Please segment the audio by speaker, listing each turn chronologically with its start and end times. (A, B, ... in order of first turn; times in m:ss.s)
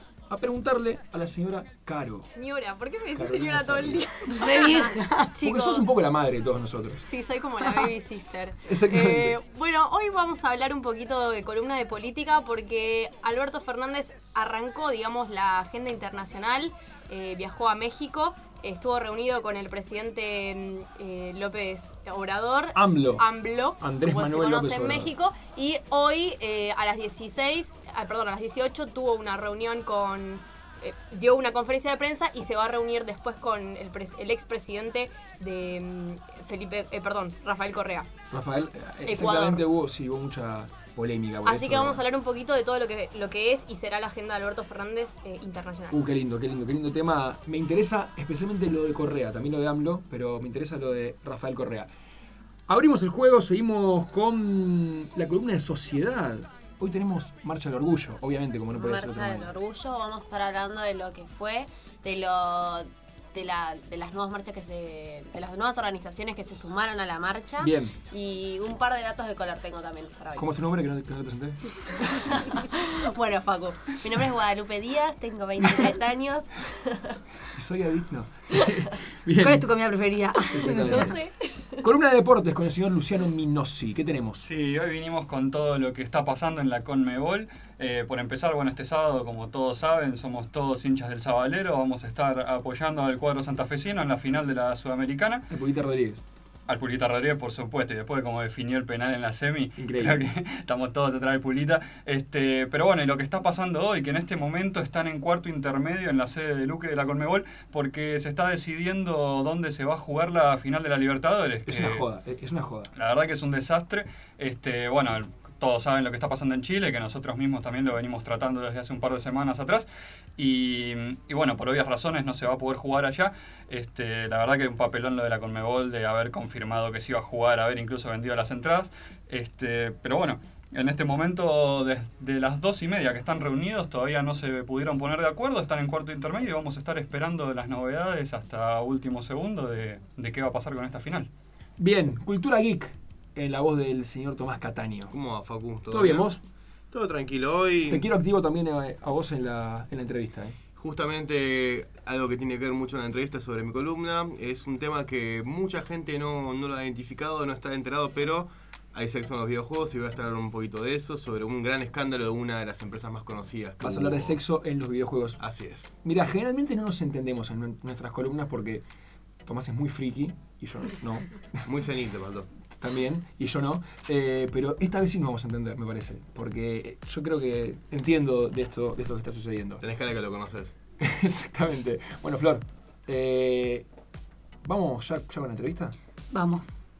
0:00.3-0:02.3 A
0:02.3-0:06.0 B
0:03.2-0:04.3 A
0:04.3-0:05.4 C
0:05.4-0:07.0 A
0:07.0-0:38.2 B
0:08.6-0:09.4 A
0:22.7-0:23.3 A
0:23.8-0:25.1 A
0:38.3-0:42.0 A
0:39.1-0:39.6 B
0:41.4-0:46.0 B
0:45.9-0:51.9 A
0:52.7-0:59.6 A
0:58.7-1:10.5 D
1:07.6-1:08.0 A
1:10.4-1:11.6 A
1:13.0-1:17.0 D
1:17.6-1:19.7 A
1:19.4-1:21.1 C
1:20.5-1:21.2 A
1:21.1-1:21.5 D
1:21.8-1:24.4 A
1:24.4-1:35.5 E
1:35.5-1:36.2 A
1:36.7-1:52.1 E
1:39.8-1:40.3 A
1:51.7-1:52.9 A
1:53.0-2:21.3 E
2:21.8-2:25.2 A
2:25.1-2:26.3 F
2:25.9-2:26.4 A
2:26.9-2:28.0 F
2:27.9-2:30.6 A
2:30.8-2:44.4 F
2:43.8-2:45.4 A
2:45.4-2:45.9 F
2:46.0-2:48.8 A
2:49.4-2:51.7 A
2:51.7-2:52.5 F
2:52.7-2:59.8 A
2:59.8-3:00.8 F
3:01.0-3:03.9 A
3:04.6-3:06.0 A
3:06.3-3:06.8 C